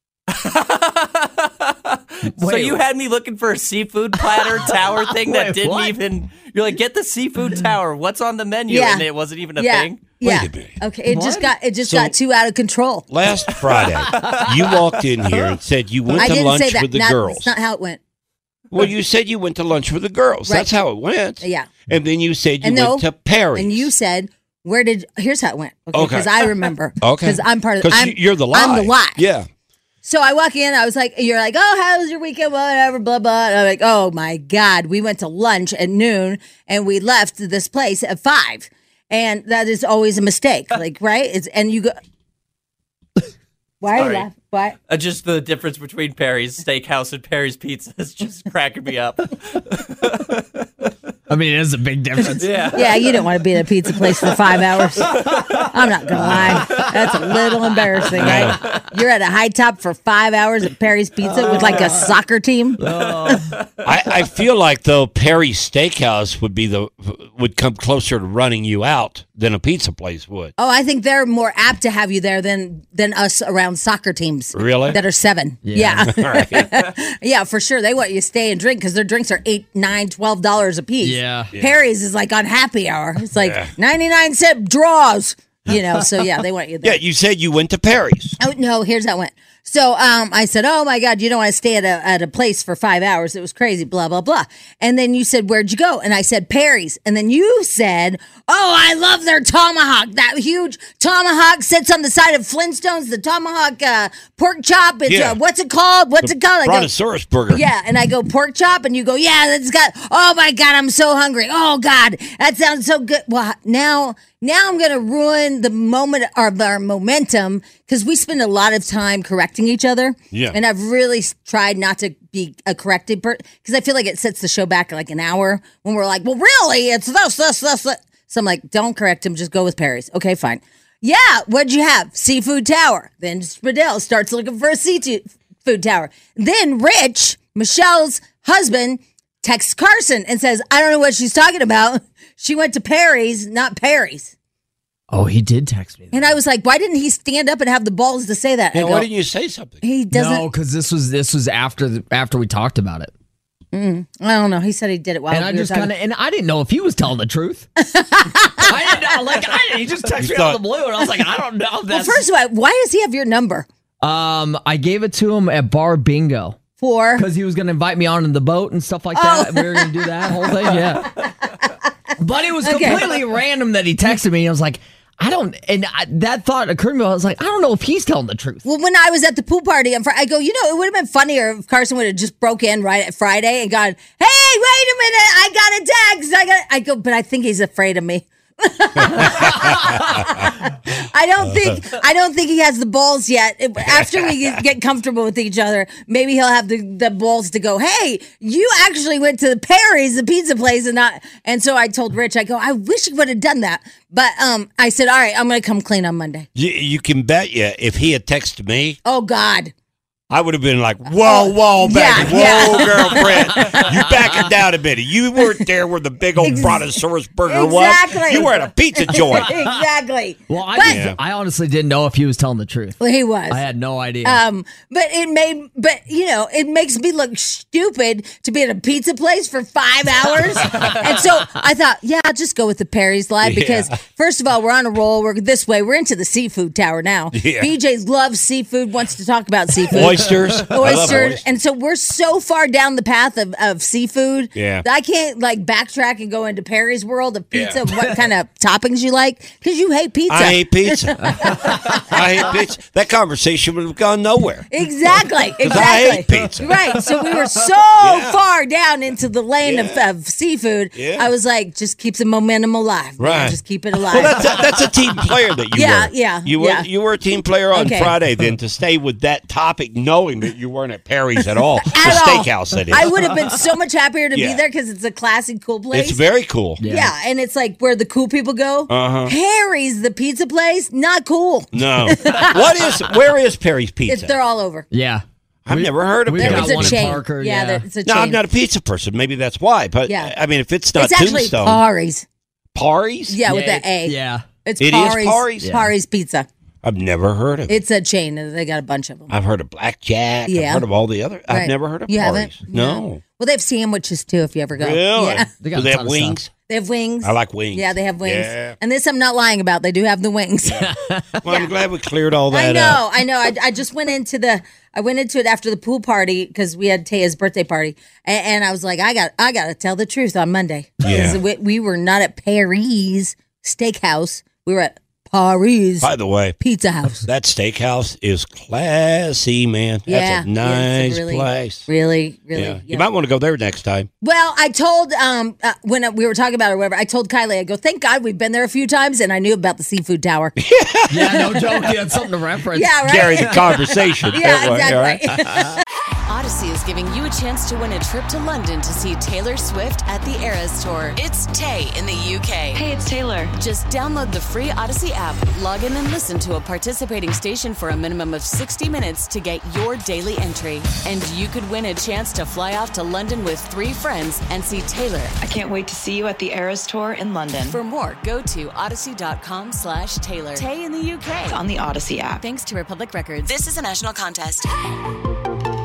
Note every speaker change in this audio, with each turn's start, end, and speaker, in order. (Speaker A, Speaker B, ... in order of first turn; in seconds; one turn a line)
Speaker A: 0.3-10.1
Speaker B: 2.4-2.8
Speaker B: 4.2-6.0
Speaker C: 8.7-13.1
Speaker D: 10.2-10.8
Speaker B: 11.1-11.5
Speaker D: 11.9-12.1
Speaker D: 13.1-17.5
Speaker A: 14.1-14.5
Speaker C: 16.1-18.0
Speaker D: 18.7-23.9
Speaker C: 21.4-21.7
Speaker C: 22.6-29.2
Speaker D: 25.9-29.4
Speaker C: 30.0-41.9
Speaker C: 43.8-44.8
Speaker A: 43.9-44.2
Speaker A: 44.9-50.9
Speaker B: 51.3-52.8
Speaker A: 52.4-53.0
Speaker C: 52.7-63.4
Speaker B: 55.1-55.6
Speaker B: 56.3-57.1
Speaker D: 58.2-58.6
Speaker B: 61.2-62.1
Speaker B: 62.8-63.5
Speaker D: 63.8-70.5
Speaker C: 70.6-87.0
Speaker D: 74.5-75.0
Speaker B: 75.6-76.1
Speaker D: 76.1-76.8
Speaker B: 81.0-81.5
Speaker D: 83.3-83.7
Speaker D: 86.8-88.4
Speaker C: 88.4-106.9
Speaker D: 105.1-105.4
Speaker D: 106.2-107.7
Speaker C: 107.5-144.3
Speaker B: 145.1-146.4
Speaker C: 146.1-149.1
Speaker D: 148.7-149.8
Speaker C: 149.8-150.4
Speaker B: 150.1-153.1
Speaker C: 153.7-155.9
Speaker B: 155.3-157.7
Speaker C: 157.8-159.1
Speaker B: 158.6-162.2
Speaker D: 160.2-160.6
Speaker C: 161.9-163.7
Speaker B: 164.0-166.6
Speaker C: 166.8-167.2
Speaker B: 167.2-171.2
Speaker C: 169.1-170.3
Speaker B: 172.2-178.6
Speaker C: 172.6-173.2
Speaker C: 178.6-206.5
Speaker D: 189.0-190.2
Speaker D: 193.9-194.3
Speaker D: 206.5-209.0
Speaker C: 209.0-209.7
Speaker D: 210.3-219.5
Speaker C: 211.1-214.1
Speaker C: 216.4-216.9
Speaker C: 217.5-221.0
Speaker B: 219.1-219.7
Speaker B: 220.5-223.0
Speaker D: 220.8-221.2
Speaker C: 223.0-223.6
Speaker B: 223.5-224.4
Speaker C: 224.2-252.5
Speaker D: 233.4-233.9
Speaker D: 237.3-237.7
Speaker D: 239.9-241.4
Speaker B: 240.8-241.2
Speaker D: 244.5-244.8
Speaker D: 250.3-254.7
Speaker C: 254.7-264.4
Speaker D: 255.6-256.7
Speaker D: 258.0-258.4
Speaker D: 259.6-260.0
Speaker D: 260.9-261.3
Speaker D: 263.2-263.6
Speaker D: 264.1-273.1
Speaker C: 265.7-266.9
Speaker C: 267.7-268.1
Speaker C: 271.9-276.2
Speaker D: 274.3-274.6
Speaker D: 275.9-276.8
Speaker B: 276.8-277.1
Speaker C: 276.8-282.7
Speaker D: 278.9-279.3
Speaker D: 281.7-284.4
Speaker C: 284.1-284.9
Speaker B: 284.9-287.8
Speaker D: 285.6-287.2
Speaker C: 286.4-288.4
Speaker D: 288.1-291.8
Speaker C: 290.1-290.3
Speaker C: 290.9-292.2
Speaker D: 292.7-293.4
Speaker C: 293.3-296.5
Speaker B: 293.5-294.4
Speaker D: 294.8-295.7
Speaker B: 295.6-295.9
Speaker D: 296.8-297.8
Speaker C: 297.7-299.3
Speaker D: 299.3-303.2
Speaker C: 300.5-300.8
Speaker C: 301.5-305.5
Speaker D: 304.8-306.5
Speaker B: 305.6-306.4
Speaker C: 306.7-310.9
Speaker D: 307.2-308.8
Speaker B: 310.9-311.2
Speaker D: 311.4-313.0
Speaker C: 311.4-311.7
Speaker C: 312.5-327.2
Speaker D: 321.0-321.4
Speaker D: 326.0-326.6
Speaker D: 327.2-331.9
Speaker C: 330.1-333.1
Speaker D: 332.5-334.1
Speaker C: 334.2-340.6
Speaker D: 340.6-341.4
Speaker B: 341.1-343.6
Speaker C: 341.4-341.8
Speaker C: 342.7-345.7
Speaker D: 343.1-345.2
Speaker E: 346.3-352.8
Speaker F: 352.7-353.5
Speaker E: 353.6-365.3
Speaker F: 365.4-367.8
Speaker E: 367.6-371.6
Speaker F: 371.5-372.4
Speaker E: 372.4-374.7